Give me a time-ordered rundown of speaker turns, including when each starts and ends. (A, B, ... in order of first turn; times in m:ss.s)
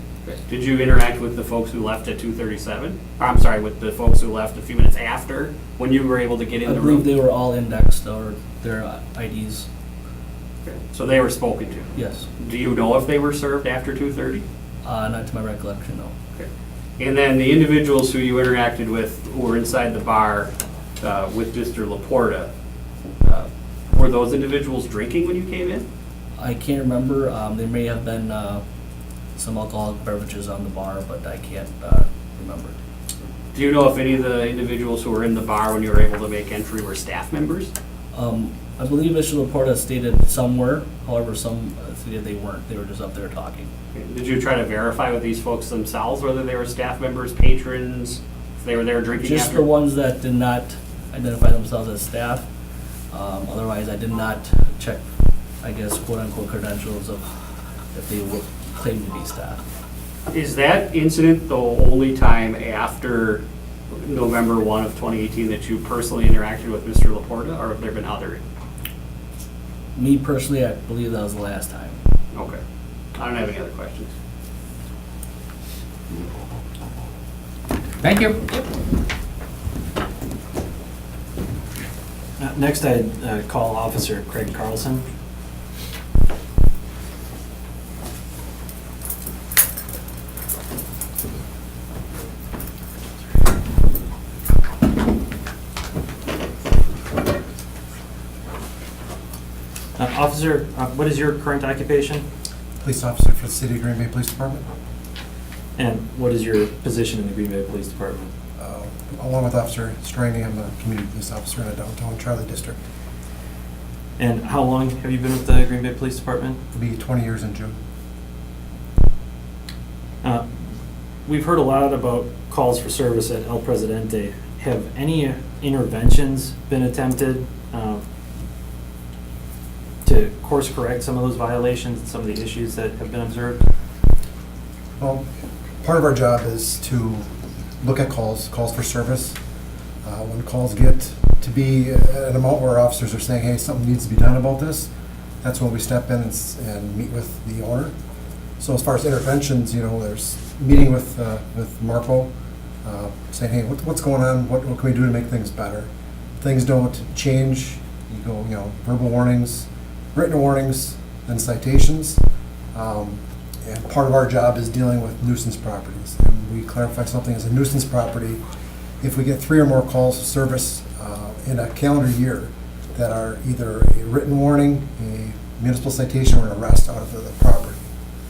0:00.2-0:07.1 A
0:06.6-0:09.7 B
0:10.6-0:14.4 A
0:12.0-0:12.3 B
0:14.8-0:16.1 B
0:17.0-0:22.5 A
0:23.2-0:25.9 A
0:26.4-0:28.6 B
0:29.4-0:32.7 B
0:33.5-0:37.7 A
0:38.1-0:43.7 B
0:43.9-0:49.7 A
0:49.2-0:52.4 B
0:53.1-0:55.0 B
0:55.6-0:57.3 B
0:57.9-0:59.6 B
1:00.3-1:08.4 A
1:10.0-1:12.0 B
1:12.3-1:12.6 A
1:13.2-1:14.1 A
1:22.4-1:25.0 C
1:40.0-1:42.2 C
1:42.8-1:44.6 D
1:45.8-1:48.3 C
1:48.6-1:52.8 D
1:54.2-1:56.6 C
1:56.7-1:57.8 D
2:00.2-2:00.5 C
2:01.2-2:08.0 C
2:10.0-2:13.6 C
2:15.0-2:15.2 D
2:15.8-2:17.2 D
2:17.8-2:19.4 D
2:20.0-2:24.9 D
2:25.4-2:27.9 D
2:28.6-2:32.3 D
2:32.8-2:35.9 D
2:36.4-2:42.2 D
2:42.7-2:48.4 D
2:49.0-2:57.8 D